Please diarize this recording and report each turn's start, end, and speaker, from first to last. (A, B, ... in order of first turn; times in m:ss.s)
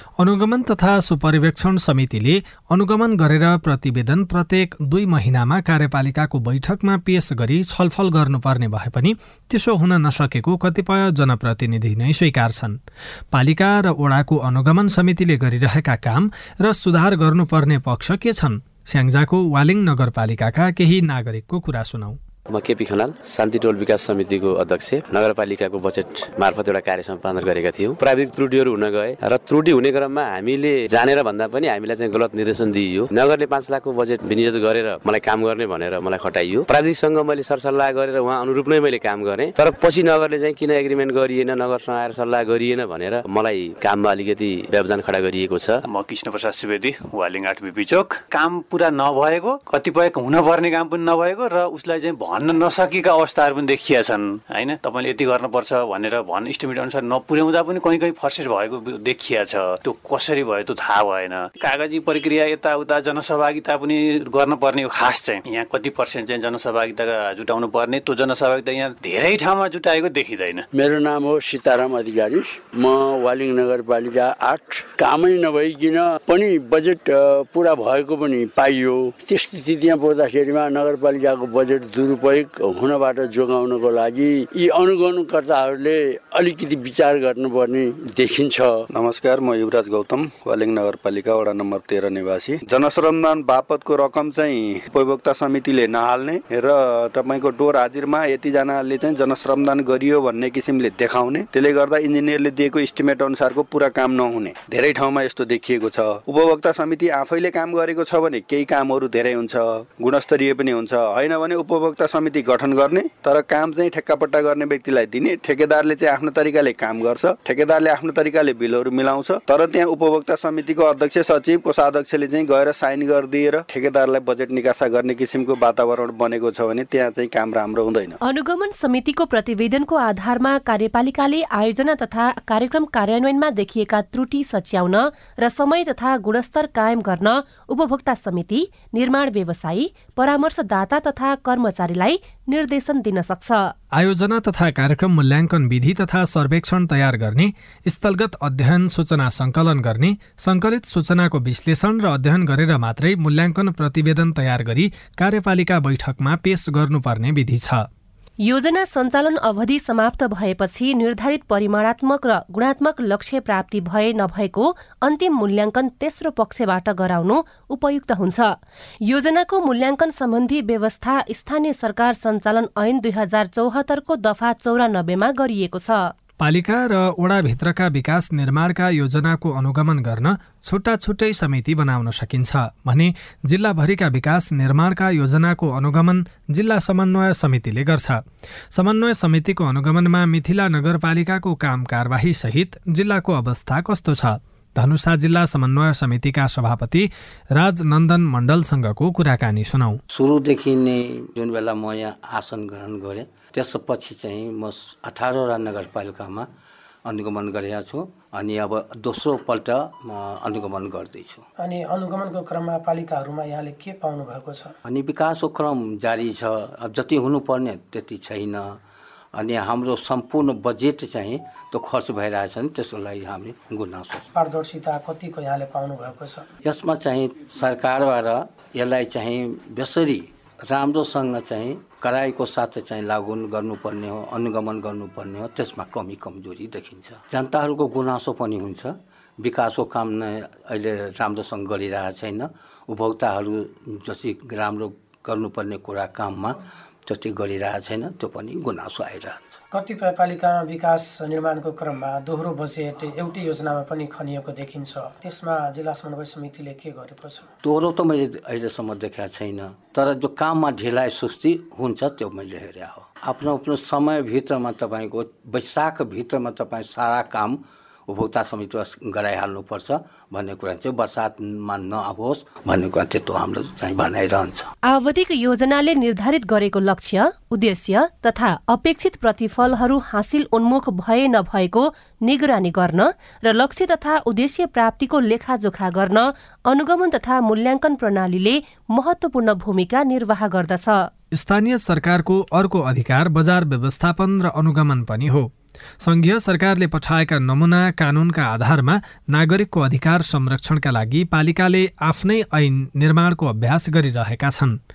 0:00.2-0:12.8 A
0:13.3-0:22.2 A
0:22.5-0:45.8 B
0:45.8-1:10.6 C
1:10.7-1:28.7 D
1:28.9-2:08.2 E
2:08.2-2:23.7 F
2:23.9-2:37.9 A
2:38.4-2:56.1 F
2:56.4-3:08.2 A
3:08.7-3:20.0 A
3:20.1-3:26.5 G
3:27.1-3:31.5 G
3:31.6-3:34.7 H
3:34.8-3:38.8 G
3:39.4-3:44.3 G
3:44.3-3:46.5 H
3:46.6-4:09.6 G
4:09.7-4:17.5 H
4:17.6-4:34.7 G
4:34.9-4:51.1 F
4:51.3-4:55.5 A
4:56.0-5:04.8 A